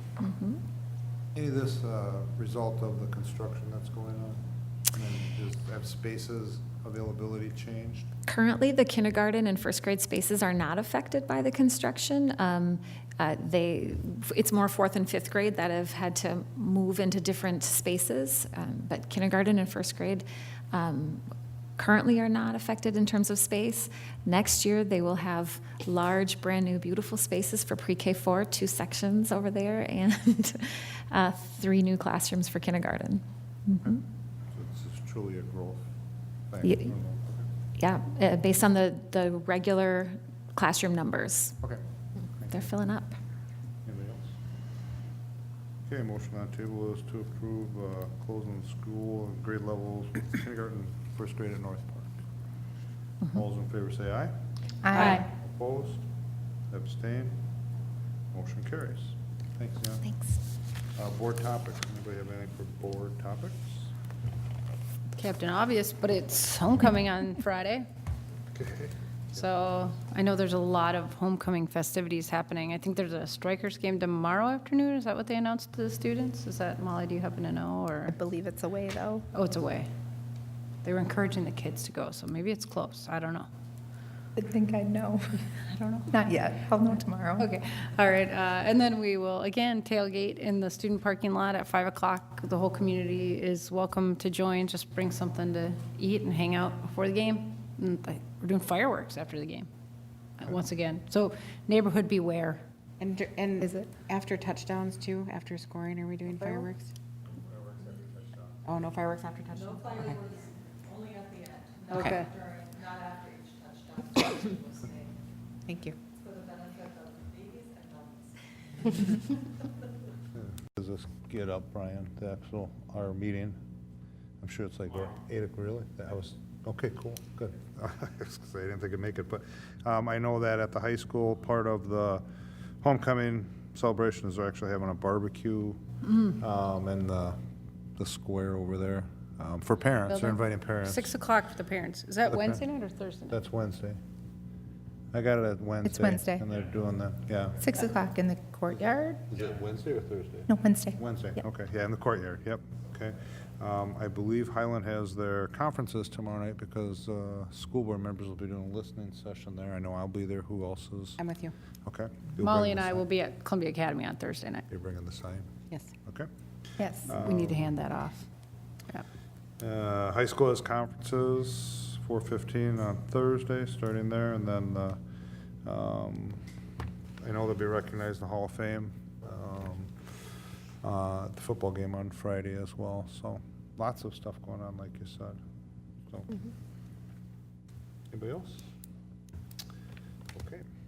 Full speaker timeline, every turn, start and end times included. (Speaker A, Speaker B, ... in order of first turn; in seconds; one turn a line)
Speaker A: 0.2-0.6
Speaker B: 1.3-8.1
Speaker A: 8.3-21.2
Speaker A: 21.8-34.0
Speaker B: 34.5-35.8
Speaker B: 36.5-37.5
Speaker A: 36.6-36.9
Speaker A: 37.8-41.6
Speaker B: 42.4-42.7
Speaker A: 42.5-43.1
Speaker B: 43.8-44.3
Speaker B: 45.9-52.2
Speaker B: 53.3-54.3
Speaker C: 54.8-55.2
Speaker B: 54.9-56.0
Speaker A: 55.0-55.2
Speaker B: 56.7-57.4
Speaker B: 58.3-60.1
Speaker B: 61.0-63.9
Speaker D: 65.2-67.8
Speaker B: 68.5-68.9
Speaker D: 69.3-78.2
Speaker C: 78.1-79.2
Speaker D: 79.3-79.9
Speaker D: 80.8-83.5
Speaker C: 84.3-85.4
Speaker D: 85.7-86.1
Speaker C: 86.1-87.5
Speaker D: 87.4-99.7
Speaker D: 100.4-102.6
Speaker E: 103.0-106.9
Speaker C: 103.6-103.9
Speaker B: 107.4-108.4
Speaker E: 108.7-110.4
Speaker E: 111.9-112.2
Speaker D: 111.9-112.3
Speaker E: 115.7-116.0
Speaker B: 120.3-123.6
Speaker B: 124.4-132.2
Speaker B: 132.8-137.4
Speaker B: 138.0-141.1
Speaker D: 140.1-143.4
Speaker B: 142.3-142.6
Speaker B: 143.3-144.0
Speaker B: 145.1-147.7
Speaker C: 145.8-146.4
Speaker C: 147.6-149.2
Speaker B: 149.3-161.2
Speaker C: 150.5-151.0
Speaker E: 161.2-161.5
Speaker B: 161.8-163.0
Speaker D: 162.4-164.6
Speaker B: 164.7-165.5
Speaker C: 166.8-167.1
Speaker B: 167.0-167.7
Speaker D: 167.1-168.2
Speaker B: 169.6-175.0
Speaker B: 175.6-176.4
Speaker B: 177.2-180.2
Speaker B: 180.8-185.4
Speaker B: 186.1-186.5
Speaker B: 188.1-188.6
Speaker B: 190.3-190.6